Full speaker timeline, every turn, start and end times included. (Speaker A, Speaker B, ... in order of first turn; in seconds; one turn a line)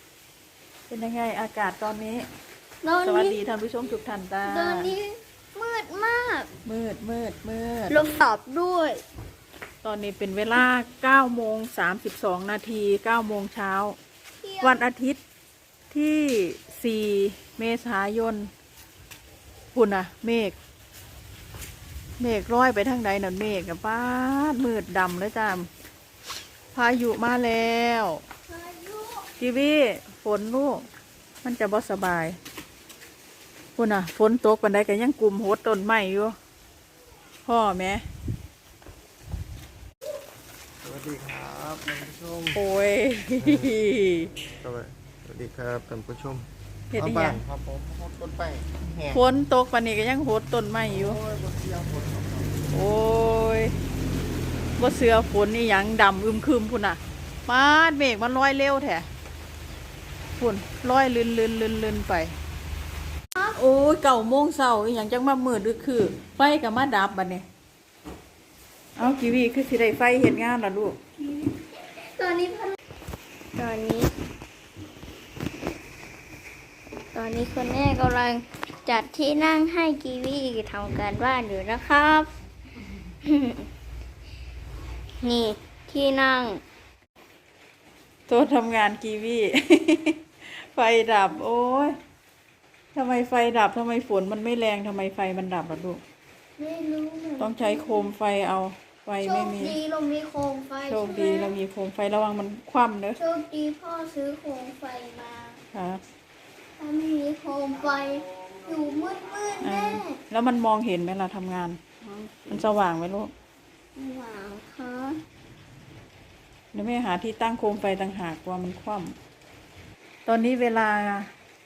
Speaker A: 0.9-2.2
Speaker B: 2.8-3.4
Speaker A: 3.0-4.9
Speaker B: 4.4-6.5
Speaker A: 6.6-8.0
Speaker B: 7.9-9.0
Speaker A: 9.8-13.9
Speaker B: 14.4-14.8
Speaker A: 14.6-15.2
Speaker A: 15.9-18.5
Speaker A: 19.7-20.6
Speaker A: 22.2-25.7
Speaker A: 26.7-28.2
Speaker B: 28.5-29.3
Speaker A: 29.4-30.8
Speaker A: 31.4-32.4
Speaker A: 33.8-36.4
Speaker A: 37.5-38.0
Speaker C: 40.8-42.6
Speaker A: 42.5-44.3
Speaker C: 43.4-43.7
Speaker C: 44.6-49.2
Speaker A: 46.9-47.4
Speaker A: 49.1-51.2
Speaker C: 50.9-52.6
Speaker A: 52.7-53.7
Speaker A: 54.8-59.0
Speaker A: 60.4-62.3
Speaker A: 63.5-67.4
Speaker A: 69.0-71.0
Speaker B: 71.2-72.7
Speaker B: 73.5-74.1
Speaker B: 77.1-82.3
Speaker B: 83.2-83.7
Speaker B: 85.2-86.6
Speaker A: 88.3-92.0
Speaker A: 92.9-96.0
Speaker B: 96.6-98.1
Speaker A: 97.4-99.8
Speaker B: 99.2-101.5
Speaker A: 100.8-103.2
Speaker B: 103.2-105.6
Speaker A: 105.7-106.0
Speaker B: 106.8-110.2
Speaker A: 109.6-111.8
Speaker B: 112.0-112.7
Speaker A: 112.5-113.3
Speaker B: 114.0-115.2
Speaker A: 116.7-119.1
Speaker A: 120.2-121.3